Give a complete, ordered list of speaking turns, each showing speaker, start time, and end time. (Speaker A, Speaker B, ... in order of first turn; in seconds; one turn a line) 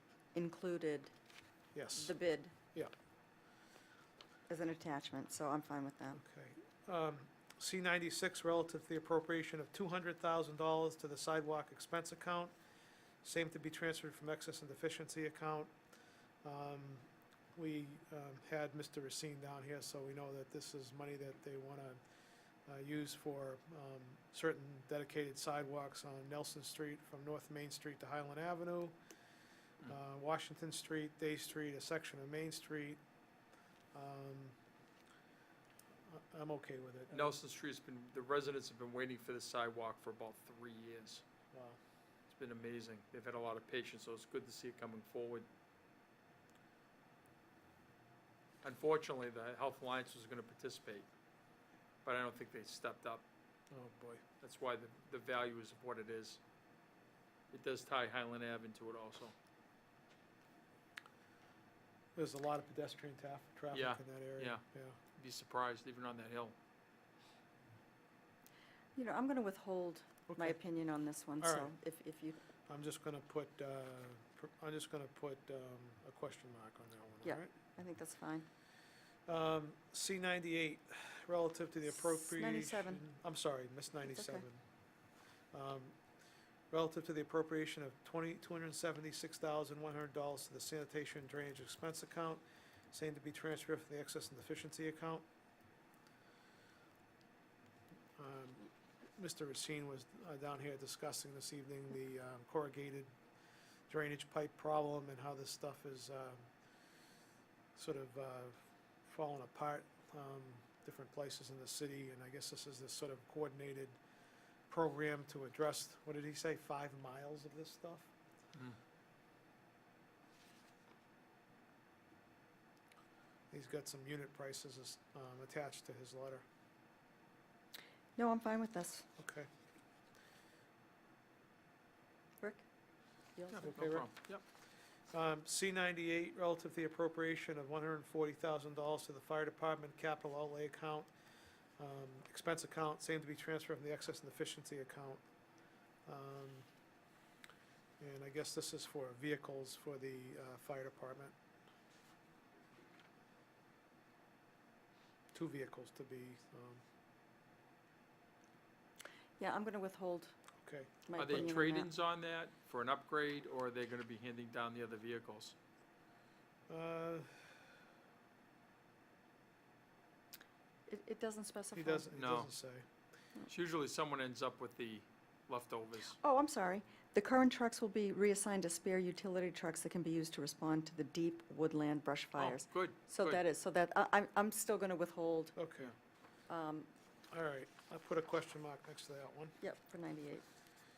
Speaker A: 0.3-1.1
Speaker B: 1.7-2.1
Speaker A: 1.9-2.5
Speaker A: 4.5-6.2
Speaker B: 6.2-12.5
Speaker B: 13.2-15.7
Speaker B: 16.4-22.0
Speaker B: 22.7-28.9
Speaker B: 29.8-33.0
Speaker B: 33.9-34.5
Speaker B: 36.1-37.4
Speaker C: 37.1-41.2
Speaker B: 41.5-41.8
Speaker C: 42.3-45.5
Speaker C: 48.6-51.1
Speaker C: 52.0-53.2
Speaker B: 53.7-54.2
Speaker C: 54.4-56.4
Speaker C: 57.5-59.3
Speaker B: 62.2-65.0
Speaker C: 63.7-64.6
Speaker C: 65.2-66.5
Speaker A: 69.0-72.4
Speaker B: 70.3-70.6
Speaker B: 71.4-71.7
Speaker B: 72.7-77.5
Speaker A: 77.2-78.5
Speaker B: 79.3-84.6
Speaker A: 81.9-83.0
Speaker A: 84.1-84.5
Speaker B: 85.5-86.0
Speaker B: 86.7-95.3
Speaker B: 98.2-103.1
Speaker B: 103.9-106.5
Speaker B: 107.8-114.0
Speaker B: 114.7-118.1
Speaker B: 123.5-126.5
Speaker A: 128.2-129.1
Speaker B: 129.2-129.5
Speaker A: 133.4-133.6
Speaker C: 133.5-134.4
Speaker B: 133.6-134.1
Speaker B: 135.1-141.1
Speaker B: 141.8-145.2
Speaker B: 146.1-146.7
Speaker B: 148.0-151.3
Speaker B: 155.3-156.8
Speaker A: 159.4-160.3
Speaker B: 160.6-161.5
Speaker A: 161.1-161.9
Speaker C: 161.2-165.6
Speaker B: 166.7-167.3
Speaker A: 170.9-172.1
Speaker B: 171.8-172.8
Speaker C: 172.1-172.5
Speaker C: 173.5-176.2
Speaker A: 176.2-185.6
Speaker C: 182.4-183.4
Speaker B: 185.6-185.9
Speaker A: 186.5-186.9
Speaker B: 187.3-189.6
Speaker A: 189.6-190.4